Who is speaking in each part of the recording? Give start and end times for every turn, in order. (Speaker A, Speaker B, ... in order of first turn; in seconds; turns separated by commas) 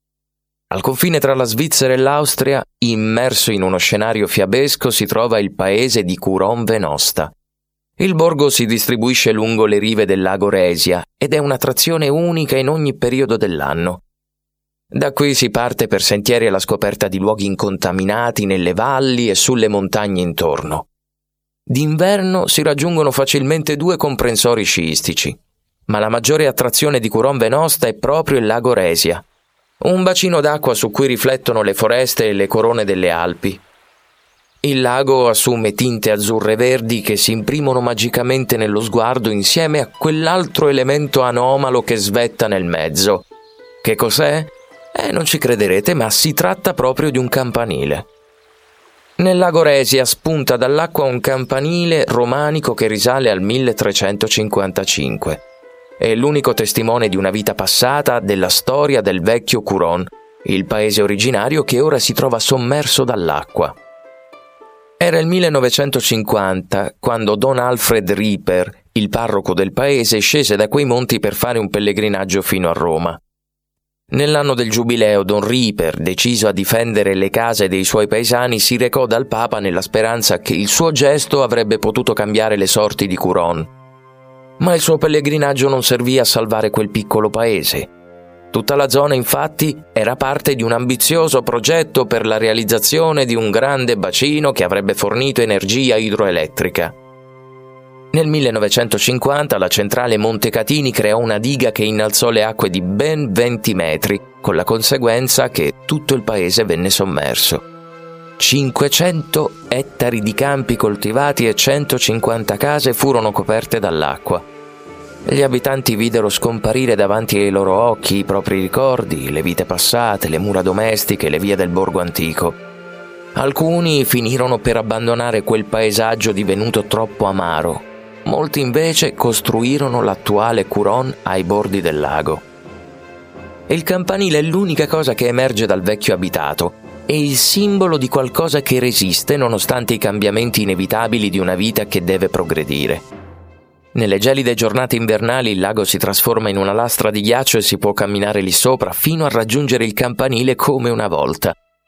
Speaker A: 0.7-7.3, Speaker A: 8.0-14.0, Speaker A: 14.9-20.9, Speaker A: 21.7-29.2, Speaker A: 29.8-33.6, Speaker A: 34.6-43.2, Speaker A: 43.8-48.0, Speaker A: 49.2-55.4, Speaker A: 56.0-63.7, Speaker A: 65.0-73.2, Speaker A: 74.1-83.7, Speaker A: 84.6-87.9, Speaker A: 88.5-96.9, Speaker A: 98.1-107.6, Speaker A: 108.4-114.4, Speaker A: 115.2-122.6, Speaker A: 123.3-132.4, Speaker A: 133.7-143.0, Speaker A: 143.9-151.5